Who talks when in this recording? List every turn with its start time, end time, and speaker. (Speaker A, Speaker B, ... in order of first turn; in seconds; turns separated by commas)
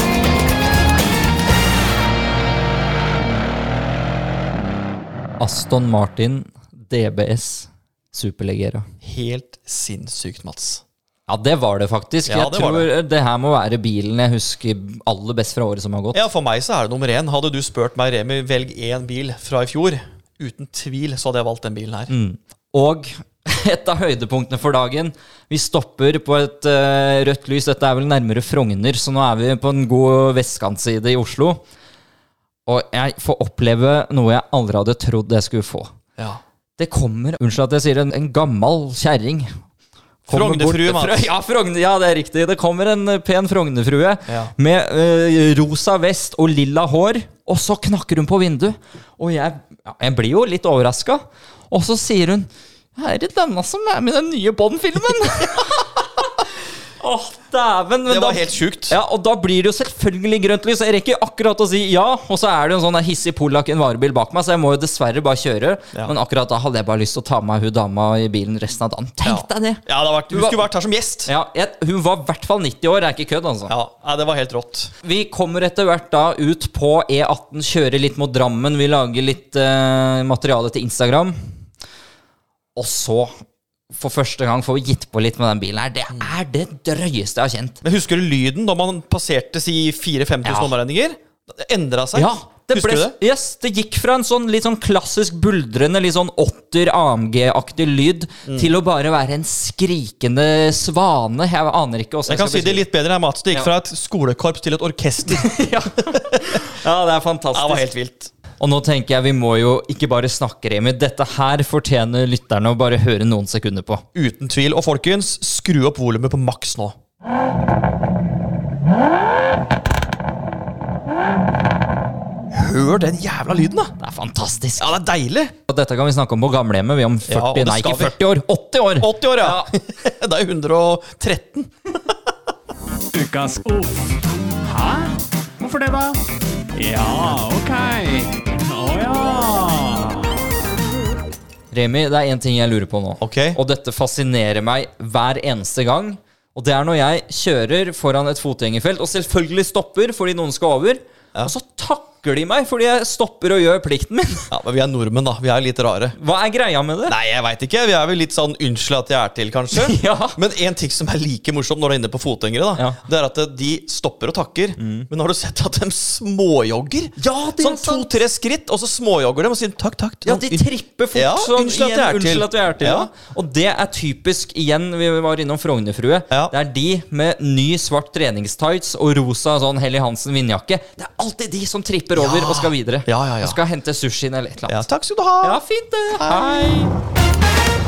Speaker A: 5.4-8.8, Speaker B: 9.0-10.8, Speaker A: 11.3-16.3, Speaker B: 12.2-12.9, Speaker B: 16.1-22.1, Speaker A: 22.1-31.6, Speaker A: 32.7-35.9, Speaker A: 36.8-39.5, Speaker A: 40.3-56.5, Speaker B: 40.3-41.3, Speaker A: 57.0-70.7, Speaker B: 58.1-59.0, Speaker B: 69.2-71.3, Speaker A: 71.3-73.8, Speaker B: 73.7-74.9, Speaker A: 75.0-81.3, Speaker A: 82.8-83.3, Speaker A: 83.9-87.8, Speaker B: 87.8-93.2, Speaker A: 90.5-90.8, Speaker A: 92.2-102.9, Speaker B: 102.3-106.4, Speaker A: 105.3-107.9, Speaker B: 107.5-108.3, Speaker A: 108.6-114.0, Speaker B: 114.2-116.9, Speaker B: 122.5-123.9, Speaker A: 124.0-124.9, Speaker B: 124.8-125.5, Speaker A: 125.7-129.7, Speaker B: 127.3-128.2, Speaker B: 129.0-132.1, Speaker C: 133.1-136.2, Speaker C: 136.7-140.4, Speaker A: 141.7-154.5, Speaker B: 143.2-143.6, Speaker B: 154.5-156.2, Speaker A: 156.2-157.2, Speaker B: 157.1-173.1, Speaker A: 159.7-160.4, Speaker A: 164.8-165.1, Speaker A: 167.2-168.2, Speaker A: 170.3-184.8, Speaker B: 182.1-183.6, Speaker B: 184.7-185.6, Speaker A: 185.4-186.9, Speaker B: 186.1-186.6